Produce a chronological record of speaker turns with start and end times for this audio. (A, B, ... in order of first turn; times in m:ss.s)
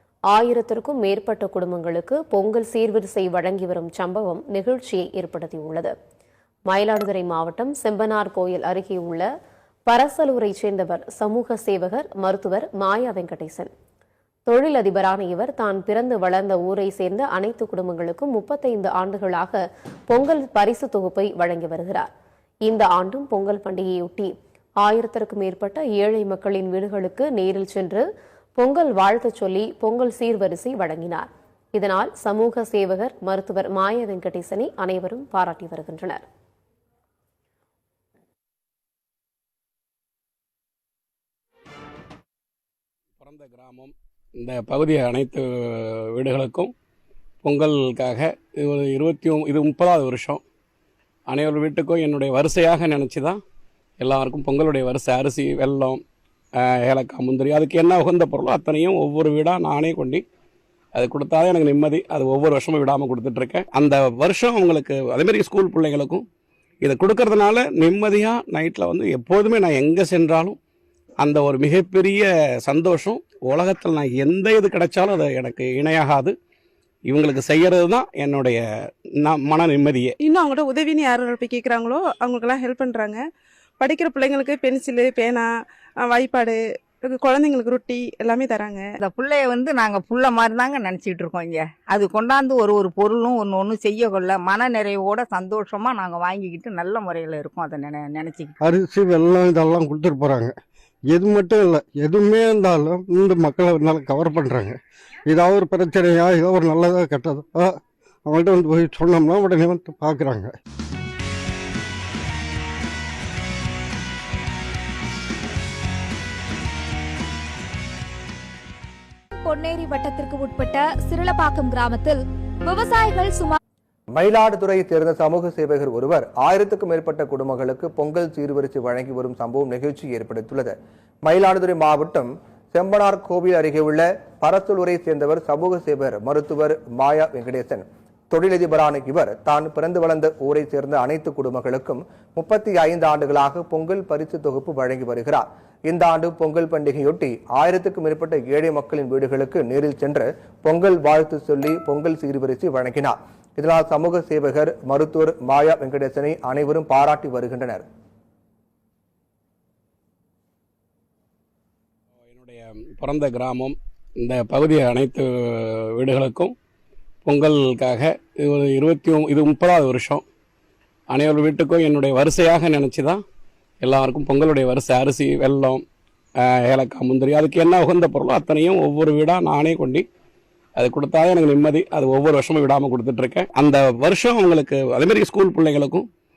0:00.3-0:05.9 A
0:06.7-0:09.3 A
0:09.9-0:13.7 A
0:14.5-0:22.1 A
0:22.6-0:28.0 A
0:28.6-0:36.2 A
0:43.2-0:46.7 B
0:47.4-0:50.4 B
0:51.3-0:53.4 B
0:54.0-0:56.0 B
0:56.6-1:00.2 B
1:01.0-1:06.2 B
1:06.8-1:10.6 B
1:11.2-1:16.3 B
1:17.1-1:18.6 B
1:19.2-1:20.1 B
1:20.2-1:23.2 C
1:23.8-1:25.5 C
1:26.0-1:28.8 C
1:29.0-1:38.5 D
1:38.6-1:40.5 E
1:41.1-1:50.5 E
1:59.4-2:03.6 F
2:04.1-2:37.8 G
2:42.3-2:46.5 B
2:47.2-2:50.2 B
2:51.1-2:53.2 B
2:53.8-2:55.8 B
2:56.6-3:00.0 B
3:00.8-3:06.0 B